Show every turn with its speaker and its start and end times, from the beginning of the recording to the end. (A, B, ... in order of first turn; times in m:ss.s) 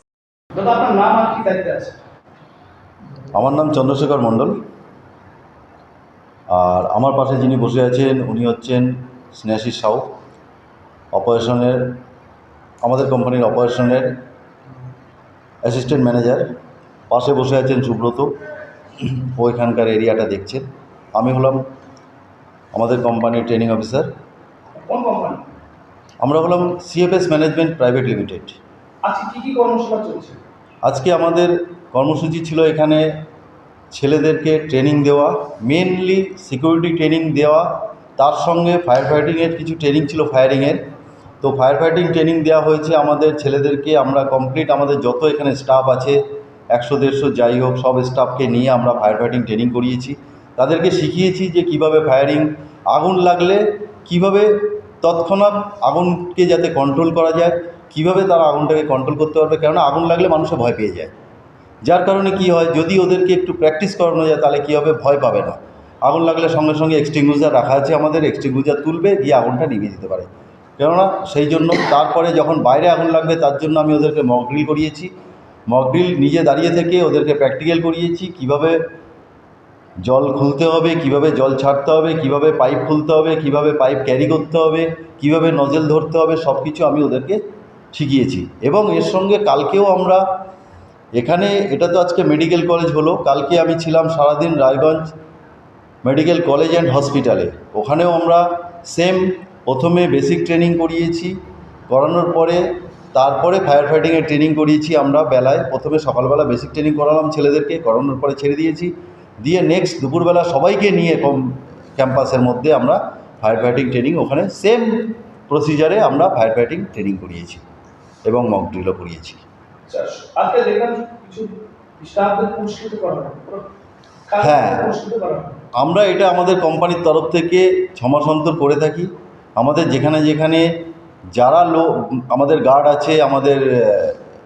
0:00.5-0:02.0 A
0:03.3-0:04.6 B
0:06.5-0:10.0 B
0:11.1-0:12.0 B
0:12.8-0:14.1 B
0:15.6-0:16.4 B
0:17.1-0:18.3 B
0:19.0-0:20.6 B
0:21.2-0:21.6 B
0:22.7-0:24.1 B
0:24.8-0:25.5 A
0:26.2-0:28.6 B
0:29.0-0:30.4 A
0:30.8-0:33.0 B
0:33.9-0:37.7 B
0:38.2-0:40.8 B
0:41.4-0:46.2 B
0:46.7-0:54.5 B
0:55.0-1:01.1 B
1:01.8-1:10.3 B
1:10.8-1:15.1 B
1:15.7-1:18.8 B
1:20.0-1:27.4 B
1:27.9-1:30.2 B
1:31.2-1:35.1 B
1:36.0-1:41.3 B
1:41.9-1:42.6 B
1:43.1-1:51.4 B
1:52.0-1:54.9 B
1:55.5-1:57.6 B
1:58.3-1:59.4 B
1:59.9-2:03.7 A
2:04.3-2:05.6 A
2:04.4-2:04.9 B
2:05.8-2:10.7 B
2:11.4-2:14.2 B